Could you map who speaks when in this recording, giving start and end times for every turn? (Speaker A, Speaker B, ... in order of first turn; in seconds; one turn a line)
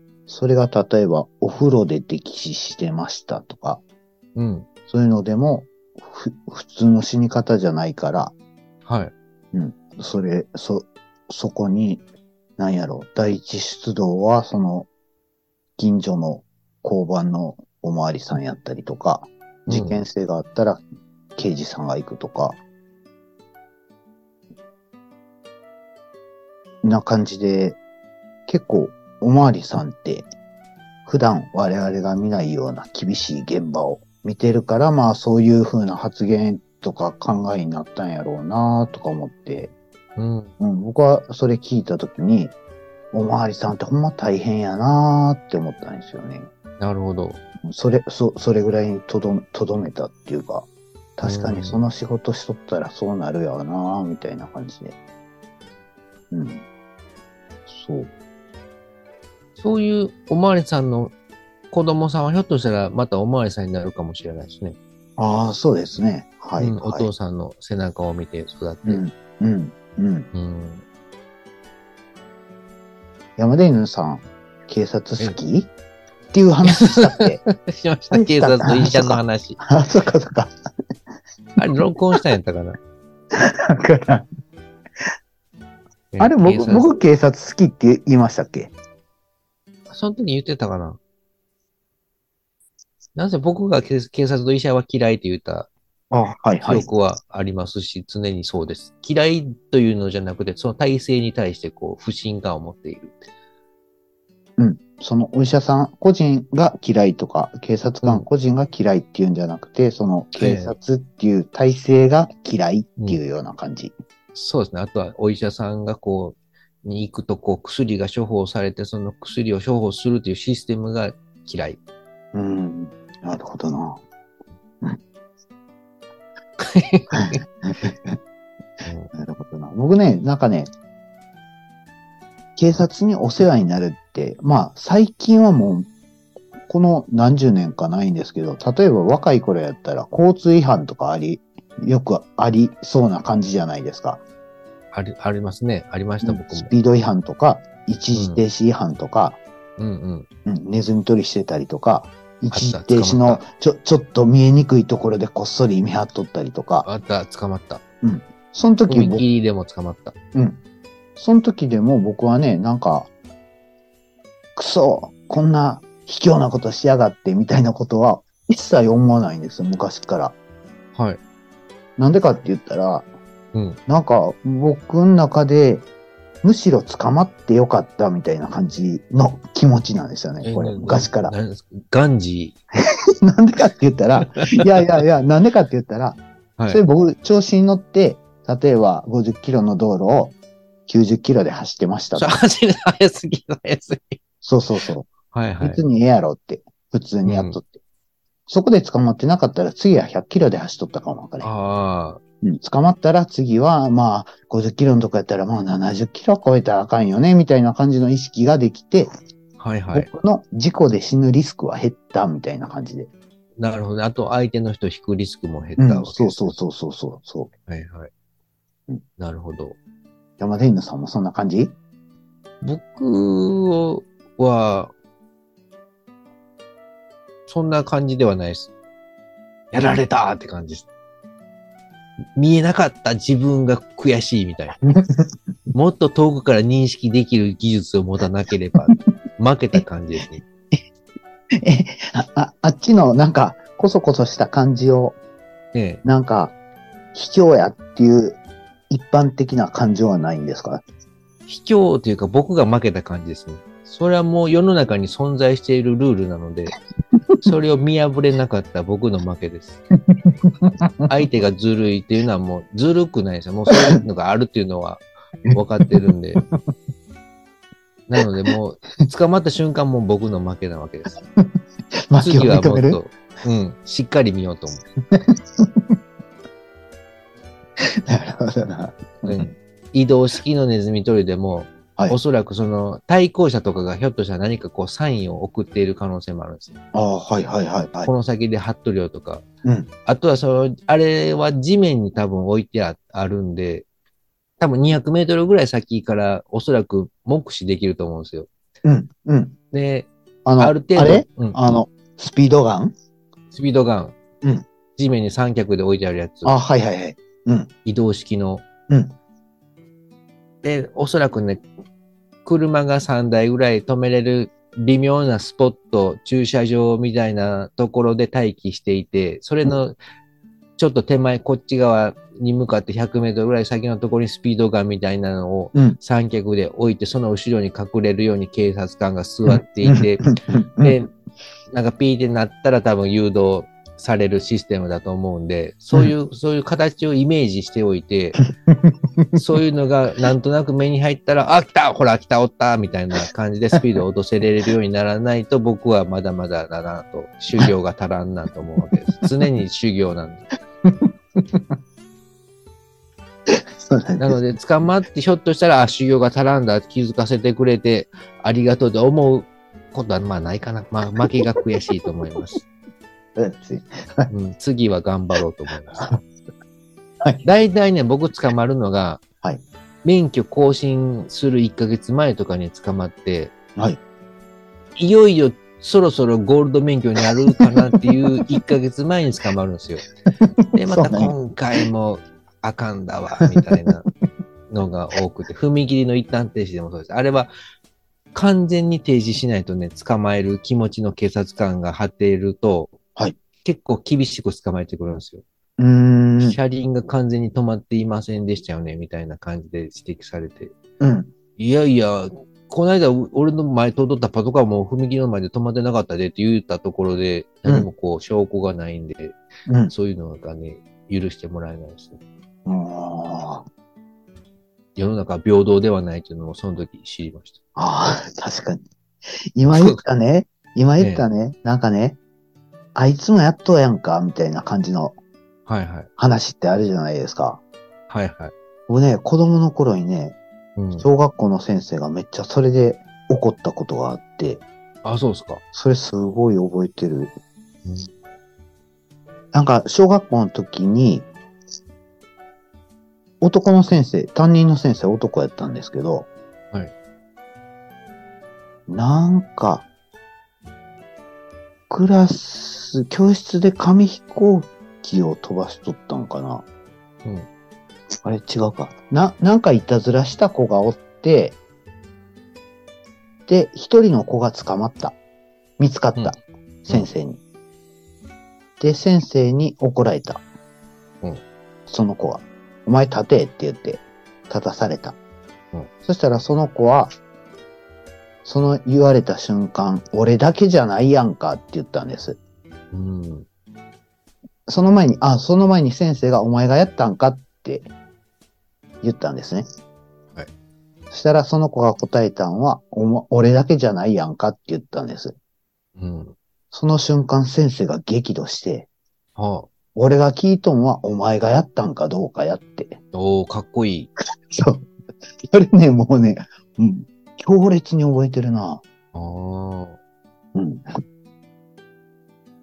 Speaker A: 0.3-3.8
Speaker B: 4.3-4.7
Speaker A: 4.9-8.3
Speaker B: 8.8-9.1
Speaker A: 9.5-12.0
Speaker A: 12.6-14.9
Speaker A: 15.8-20.8
Speaker B: 19.7-20.0
Speaker A: 21.4-22.6
Speaker A: 26.8-27.8
Speaker A: 28.5-30.3
Speaker A: 31.1-39.7
Speaker B: 40.2-40.5
Speaker A: 40.6-42.5
Speaker A: 43.1-46.5
Speaker B: 46.8-47.4
Speaker A: 47.6-55.0
Speaker B: 51.2-51.8
Speaker A: 56.3-56.6
Speaker A: 57.7-58.1
Speaker B: 59.6-61.1
Speaker B: 61.7-64.8
Speaker A: 65.2-67.1
Speaker B: 66.6-69.0
Speaker A: 68.8-70.3
Speaker B: 70.3-70.8
Speaker A: 73.4-75.7
Speaker A: 76.3-77.4
Speaker B: 76.7-79.6
Speaker A: 78.1-80.5
Speaker B: 81.6-82.8
Speaker A: 83.3-84.2
Speaker B: 86.1-87.0
Speaker A: 86.2-88.7
Speaker B: 89.9-91.0
Speaker B: 93.1-95.7
Speaker A: 96.1-96.9
Speaker B: 96.6-103.2
Speaker A: 104.6-113.9
Speaker B: 110.3-110.7
Speaker B: 114.3-121.8
Speaker A: 122.3-124.0
Speaker B: 126.6-127.4
Speaker A: 127.1-128.2
Speaker B: 128.8-129.1
Speaker A: 129.1-130.7
Speaker A: 132.6-135.9
Speaker A: 136.7-144.2
Speaker B: 144.9-146.7
Speaker A: 146.2-149.4
Speaker B: 148.1-148.4
Speaker B: 149.8-150.3
Speaker A: 150.4-156.9
Speaker B: 152.5-153.4
Speaker B: 156.8-157.8
Speaker A: 158.0-159.2
Speaker B: 158.9-160.1
Speaker A: 160.3-160.6
Speaker A: 161.2-163.1
Speaker A: 164.6-170.3
Speaker B: 170.9-171.2
Speaker A: 172.0-173.1
Speaker A: 173.9-175.8
Speaker A: 176.4-181.3
Speaker B: 180.4-182.6
Speaker A: 183.2-190.3
Speaker B: 184.2-184.7
Speaker A: 190.9-192.3
Speaker B: 192.1-194.2
Speaker A: 194.4-195.1
Speaker B: 195.3-195.8
Speaker A: 195.6-197.8
Speaker B: 197.2-197.6
Speaker A: 198.5-201.5
Speaker B: 201.4-202.2
Speaker A: 202.4-209.1
Speaker B: 209.6-210.1
Speaker A: 209.9-213.1
Speaker B: 213.6-216.6
Speaker A: 215.8-217.5
Speaker B: 217.7-218.1
Speaker B: 219.2-219.8
Speaker A: 220.4-221.7
Speaker B: 222.6-224.9
Speaker B: 227.5-228.7
Speaker B: 229.7-230.9
Speaker B: 232.3-234.8
Speaker A: 234.8-235.3
Speaker B: 235.7-240.4
Speaker A: 241.5-245.2
Speaker B: 245.7-246.0
Speaker A: 246.0-246.6
Speaker A: 247.1-248.4
Speaker A: 248.9-250.8
Speaker B: 251.5-256.8
Speaker B: 257.4-259.8
Speaker A: 260.1-261.1
Speaker B: 261.1-266.4
Speaker A: 265.5-265.9
Speaker B: 268.1-271.2
Speaker A: 272.1-273.0
Speaker B: 272.2-274.9
Speaker A: 275.1-275.9
Speaker A: 277.8-279.5
Speaker B: 279.2-286.8
Speaker A: 286.9-288.1
Speaker B: 288.0-289.4
Speaker A: 289.6-289.9
Speaker B: 290.1-293.9
Speaker B: 294.6-298.5
Speaker A: 298.8-299.5
Speaker B: 299.7-301.6
Speaker A: 300.4-302.9
Speaker B: 303.5-304.1
Speaker B: 305.0-306.6
Speaker A: 306.4-307.7
Speaker B: 307.8-308.6
Speaker A: 308.9-309.1
Speaker B: 310.6-311.6
Speaker B: 312.4-319.9
Speaker B: 320.8-331.1
Speaker A: 329.5-331.0
Speaker B: 331.7-338.4
Speaker A: 338.4-339.4
Speaker B: 339.3-350.4
Speaker A: 350.8-351.7
Speaker A: 353.5-354.4
Speaker B: 354.2-362.6
Speaker A: 363.4-364.3
Speaker B: 364.3-366.2
Speaker B: 367.4-369.2
Speaker B: 370.0-373.5
Speaker B: 374.9-380.1
Speaker A: 377.2-378.1
Speaker A: 380.4-381.8
Speaker B: 380.7-384.1
Speaker B: 384.7-387.5
Speaker B: 388.3-393.0
Speaker B: 393.6-395.4
Speaker A: 395.8-396.6
Speaker B: 396.4-400.7
Speaker A: 401.0-401.3
Speaker B: 401.6-409.4
Speaker A: 409.7-409.9
Speaker B: 409.9-412.2
Speaker A: 412.6-413.6
Speaker B: 414.9-417.6
Speaker A: 417.8-418.8
Speaker A: 419.6-422.2
Speaker B: 419.7-420.0
Speaker B: 421.0-421.2
Speaker A: 422.9-425.1
Speaker B: 425.7-426.1
Speaker A: 426.2-427.6
Speaker B: 428.1-428.5
Speaker A: 428.9-430.4
Speaker B: 430.8-431.1
Speaker A: 431.0-434.6
Speaker B: 435.0-435.6
Speaker A: 435.7-437.3
Speaker A: 439.5-441.3
Speaker A: 443.4-446.3
Speaker A: 448.9-449.9
Speaker A: 451.9-456.6
Speaker A: 458.2-461.6
Speaker A: 463.5-465.2
Speaker A: 465.8-467.4
Speaker A: 468.8-470.4
Speaker A: 471.9-475.2
Speaker A: 476.0-477.1
Speaker A: 478.4-482.4
Speaker B: 482.9-483.5
Speaker A: 484.7-487.9
Speaker A: 489.0-489.6
Speaker A: 491.1-495.3
Speaker B: 496.0-496.4
Speaker A: 496.7-498.9
Speaker B: 499.4-499.7
Speaker A: 499.9-503.0
Speaker B: 503.1-504.1
Speaker A: 504.5-504.9
Speaker A: 505.4-508.8
Speaker B: 509.1-510.0
Speaker A: 510.5-511.0